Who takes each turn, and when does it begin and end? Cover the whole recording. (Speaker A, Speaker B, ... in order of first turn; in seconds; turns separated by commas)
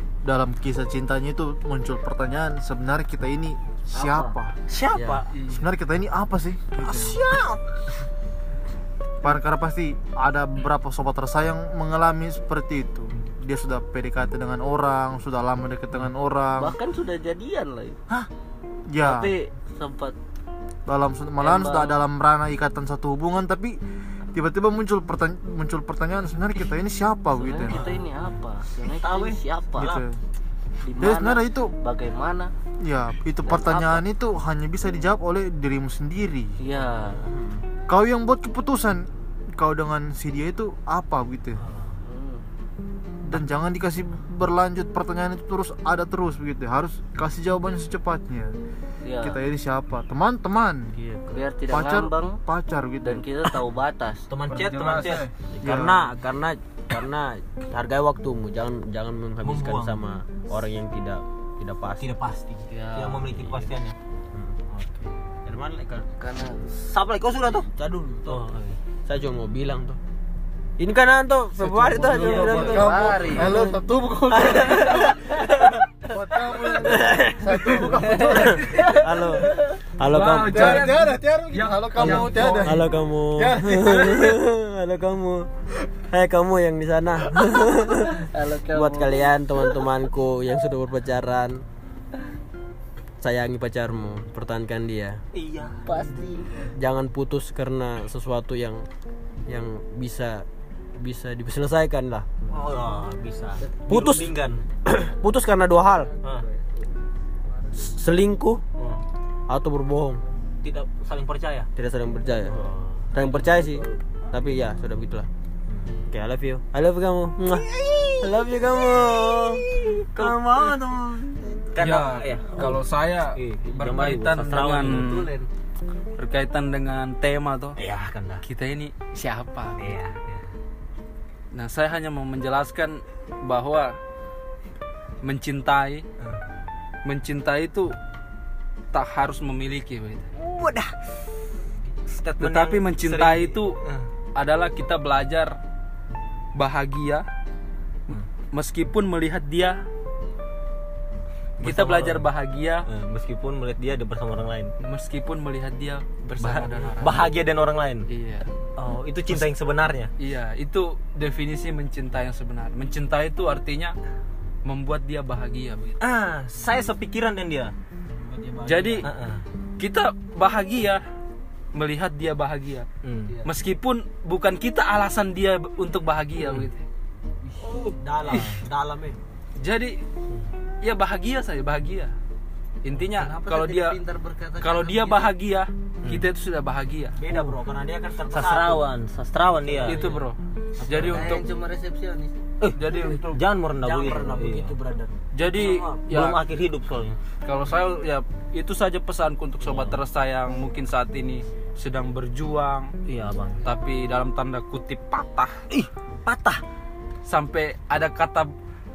Speaker A: 0.2-4.6, Speaker B: 3.9-4.3, Speaker C: 4.7-5.3, Speaker D: 5.3-5.6, Speaker A: 5.5-7.2, Speaker C: 6.8-7.6, Speaker A: 9.2-16.7, Speaker B: 16.6-18.0, Speaker A: 18.9-19.3, Speaker B: 19.0-20.1, Speaker A: 20.9-23.8, Speaker B: 21.4-22.0, Speaker A: 24.3-28.0, Speaker B: 27.4-30.0, Speaker C: 27.7-28.0, Speaker C: 28.9-30.0, Speaker A: 29.8-30.1, Speaker B: 30.8-32.5, Speaker A: 31.0-31.7, Speaker A: 32.8-36.6, Speaker B: 33.5-34.0, Speaker B: 36.6-37.2, Speaker E: 37.2-37.6, Speaker A: 37.9-41.6, Speaker B: 42.0-42.4, Speaker A: 43.2-48.5, Speaker B: 49.0-49.4, Speaker A: 49.2-51.0, Speaker B: 51.3-52.4, Speaker A: 51.7-53.5, Speaker B: 53.0-54.3, Speaker C: 54.3-55.8, Speaker D: 54.5-55.2, Speaker A: 54.5-56.0, Speaker E: 55.6-62.1, Speaker C: 59.4-60.0, Speaker C: 62.0-63.9, Speaker B: 62.7-63.7, Speaker E: 64.3-64.6, Speaker C: 64.7-65.1, Speaker E: 65.5-66.0, Speaker B: 66.2-66.6, Speaker C: 66.7-67.7, Speaker E: 67.7-68.5, Speaker C: 68.2-68.8, Speaker E: 69.0-70.0, Speaker E: 70.8-73.7, Speaker A: 71.6-75.1, Speaker B: 72.2-73.6, Speaker E: 74.3-75.8, Speaker A: 76.0-78.6, Speaker E: 76.9-77.4, Speaker B: 78.0-79.0, Speaker E: 78.2-80.9, Speaker D: 80.0-82.7, Speaker A: 80.5-84.1, Speaker E: 82.0-85.5, Speaker E: 86.1-88.2, Speaker B: 88.2-89.6, Speaker E: 88.7-91.6, Speaker E: 93.2-95.2, Speaker C: 95.3-95.8, Speaker B: 95.8-96.5, Speaker E: 96.6-98.8, Speaker E: 99.5-102.3, Speaker C: 102.5-104.6, Speaker E: 103.9-104.3, Speaker E: 104.8-106.1, Speaker E: 107.7-108.6, Speaker E: 109.5-110.2, Speaker C: 110.6-111.7, Speaker E: 111.8-112.6, Speaker C: 112.4-113.4, Speaker E: 113.1-115.3, Speaker C: 115.7-116.0, Speaker E: 116.1-117.7, Speaker C: 117.5-118.5, Speaker E: 118.2-119.6, Speaker C: 119.2-120.8, Speaker E: 120.2-121.4, Speaker C: 121.7-122.8, Speaker D: 121.8-125.3, Speaker C: 123.3-125.0, Speaker B: 124.9-125.5, Speaker D: 126.2-127.8, Speaker C: 127.8-128.4, Speaker D: 128.4-129.8, Speaker C: 129.8-130.5, Speaker D: 131.5-133.9, Speaker D: 135.2-136.0, Speaker D: 137.0-137.9, Speaker D: 138.9-140.2, Speaker C: 140.4-140.9, Speaker C: 142.1-144.1, Speaker D: 142.4-143.8, Speaker D: 144.3-145.5, Speaker D: 146.5-147.2, Speaker D: 148.5-149.8, Speaker C: 151.6-152.3, Speaker D: 151.6-152.9, Speaker C: 152.8-154.7, Speaker D: 154.8-157.3, Speaker C: 156.4-158.0, Speaker D: 158.1-158.5, Speaker C: 158.8-160.1, Speaker D: 160.2-163.9, Speaker D: 164.6-166.0, Speaker C: 166.0-167.7, Speaker E: 168.2-169.1, Speaker D: 168.6-169.1, Speaker C: 169.0-169.4, Speaker D: 169.8-171.0, Speaker D: 171.7-172.8, Speaker C: 173.0-173.3, Speaker D: 173.4-176.8, Speaker C: 176.4-176.7, Speaker E: 177.6-179.2, Speaker C: 178.2-178.6, Speaker D: 179.6-180.0, Speaker D: 180.8-182.1, Speaker D: 182.8-184.0, Speaker B: 183.1-185.3, Speaker D: 184.6-187.2, Speaker E: 187.2-188.8, Speaker C: 187.3-187.5, Speaker C: 188.3-190.0, Speaker D: 189.8-191.4, Speaker C: 190.8-191.4, Speaker B: 191.0-192.3, Speaker C: 192.6-194.7, Speaker D: 192.8-193.4, Speaker E: 193.8-195.1, Speaker D: 195.3-196.4, Speaker C: 196.1-197.2, Speaker D: 197.4-202.9, Speaker C: 199.6-200.0, Speaker C: 203.1-203.6, Speaker D: 203.6-205.6, Speaker C: 205.7-206.6, Speaker D: 207.2-208.5